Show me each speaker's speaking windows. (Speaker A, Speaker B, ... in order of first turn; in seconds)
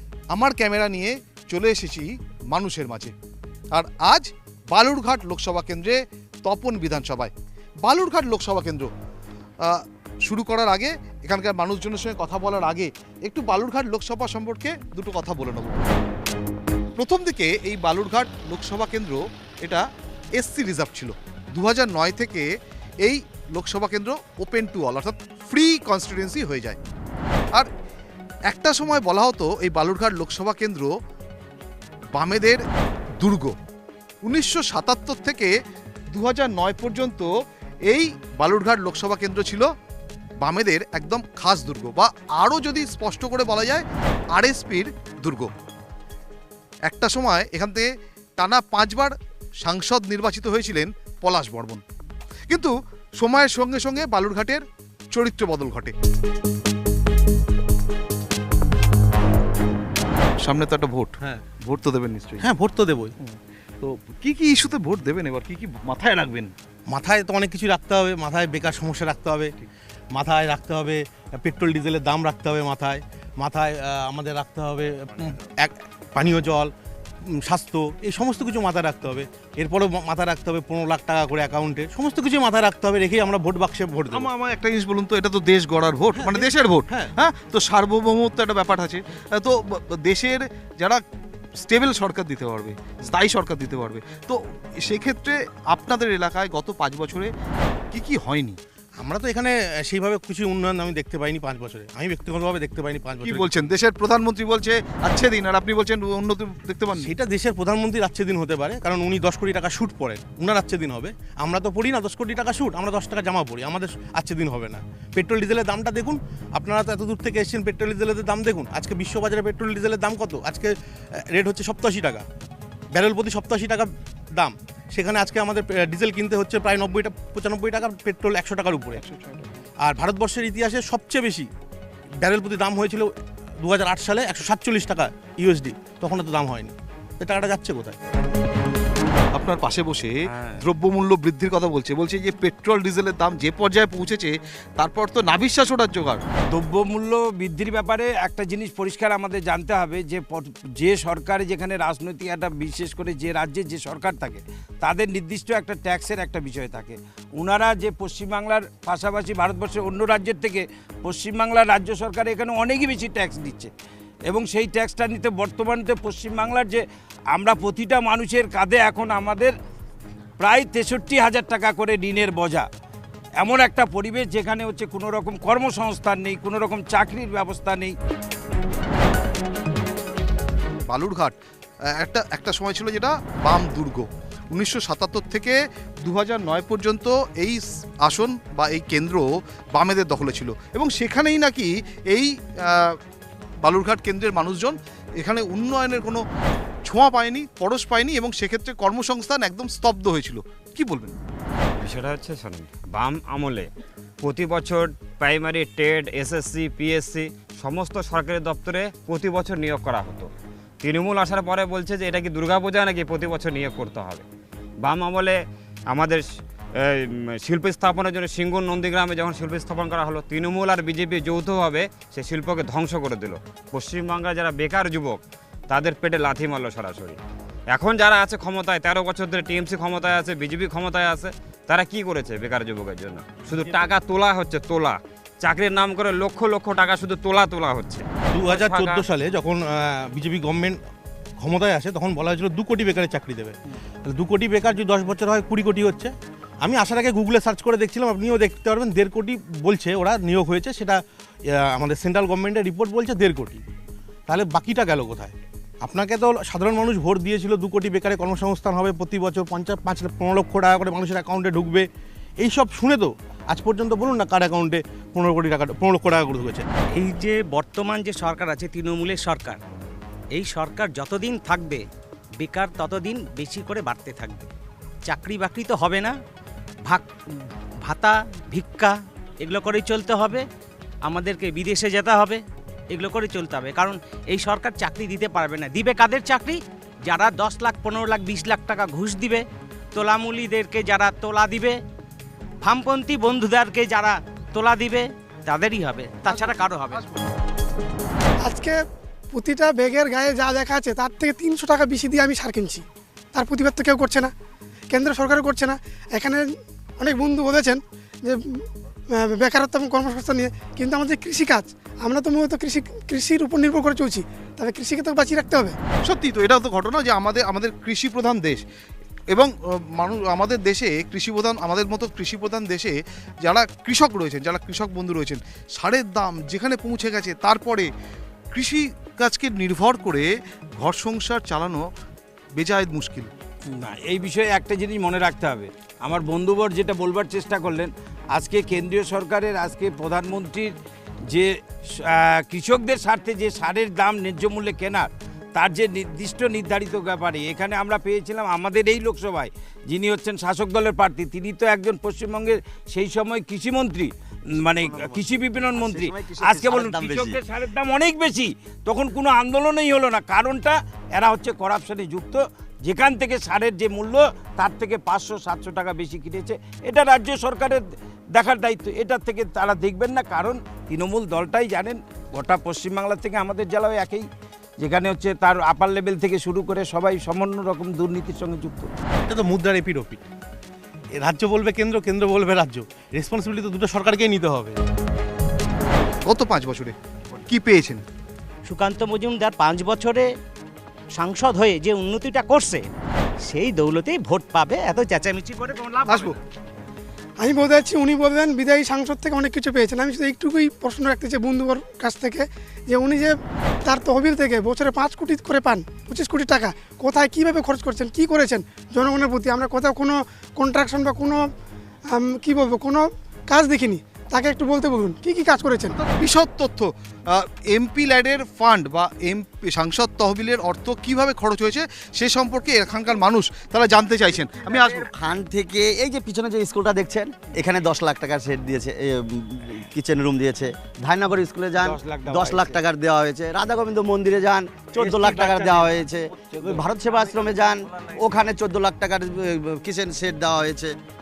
Speaker A: 0.3-3.1, 3.7-7.3, 7.8-8.9, 9.6-15.9, 16.9-19.9, 20.4-22.5, 23.0-26.8, 28.5-30.9, 32.1-32.6, 33.2-33.5, 34.2-35.5, 36.1-37.3, 37.9-39.7, 40.4-45.5, 46.9-51.8, 52.5-55.9, 60.4-62.5, 63.8-66.5, 84.1-91.0, 91.6-97.3, 97.9-98.6, 103.2-107.1, 139.3-146.2, 180.8-181.3, 181.8-193.0, 193.6-196.2, 196.9-201.1, 316.1-318.6, 319.3-327.9, 328.5-331.9, 332.6-333.3, 386.2-388.0, 396.1-396.4, 415.9-425.1
Speaker B: 62.4-63.1, 66.9-69.5, 70.2-76.7, 77.2-84.3, 86.1-87.1, 99.0-103.7, 106.9-122.2, 122.9-129.1, 129.8-131.5, 132.2-138.0, 238.3-240.8, 241.4-243.6, 244.1-251.0, 251.5-253.6, 254.3-261.9, 262.4-266.7, 379.2-380.2, 381.2-384.8
Speaker C: 146.5-163.7, 164.3-166.8, 167.3-169.5, 170.4-172.6, 173.4-177.9, 333.7-340.7, 341.3-374.2, 374.8-378.9, 431.8-432.8, 435.1-435.7
Speaker D: 201.8-203.7, 204.2-210.3, 210.8-214.2, 214.8-227.2, 227.7-239.0
Speaker E: 266.9-269.6, 270.3-271.8, 272.4-274.5, 275.1-276.1, 277.8-280.4, 281.0-289.4, 289.9-291.8, 292.6-297.0, 388.6-390.3, 391.1-392.9, 393.5-396.3
Speaker F: 298.4-298.8, 299.3-302.8, 303.3-304.3, 304.9-306.4, 307.0-308.6, 309.1-315.8, 397.4-411.4, 412.1-416.0
Speaker G: 354.8-357.4, 425.0-440.9